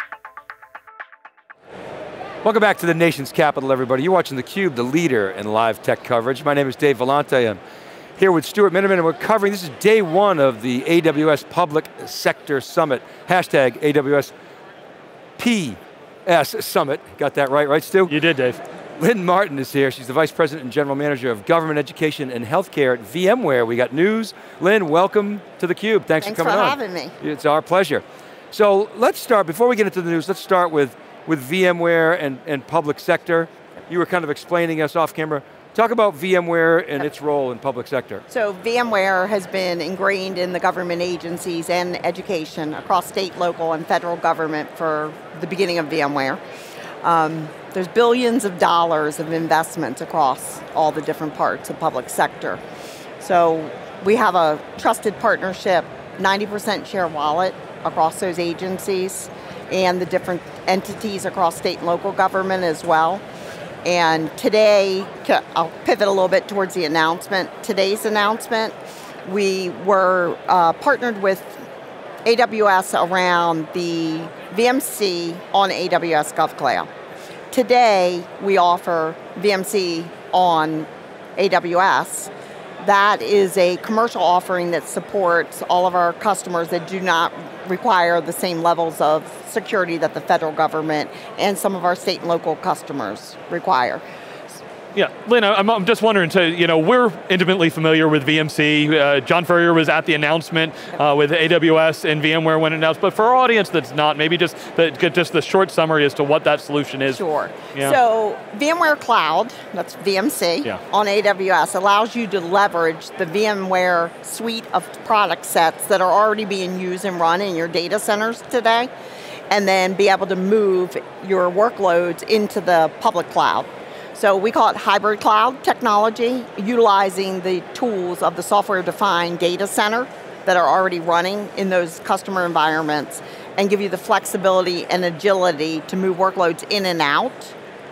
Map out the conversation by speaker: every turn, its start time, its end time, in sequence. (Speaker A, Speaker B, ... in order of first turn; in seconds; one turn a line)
Speaker A: 2.4-7.6
Speaker A: 8.2-14.3
Speaker A: 15.4-18.1
Speaker B: 18.1-18.6
Speaker A: 19.0-38.2
Speaker C: 26.2-27.2
Speaker C: 38.3-46.4
Speaker C: 47.0-52.6
Speaker C: 53.2-63.2
Speaker C: 63.8-71.6
Speaker C: 72.2-76.9
Speaker C: 77.5-82.3
Speaker C: 82.8-94.0
Speaker B: 94.9-107.2
Speaker C: 107.0-118.9
Speaker C: 119.5-137.6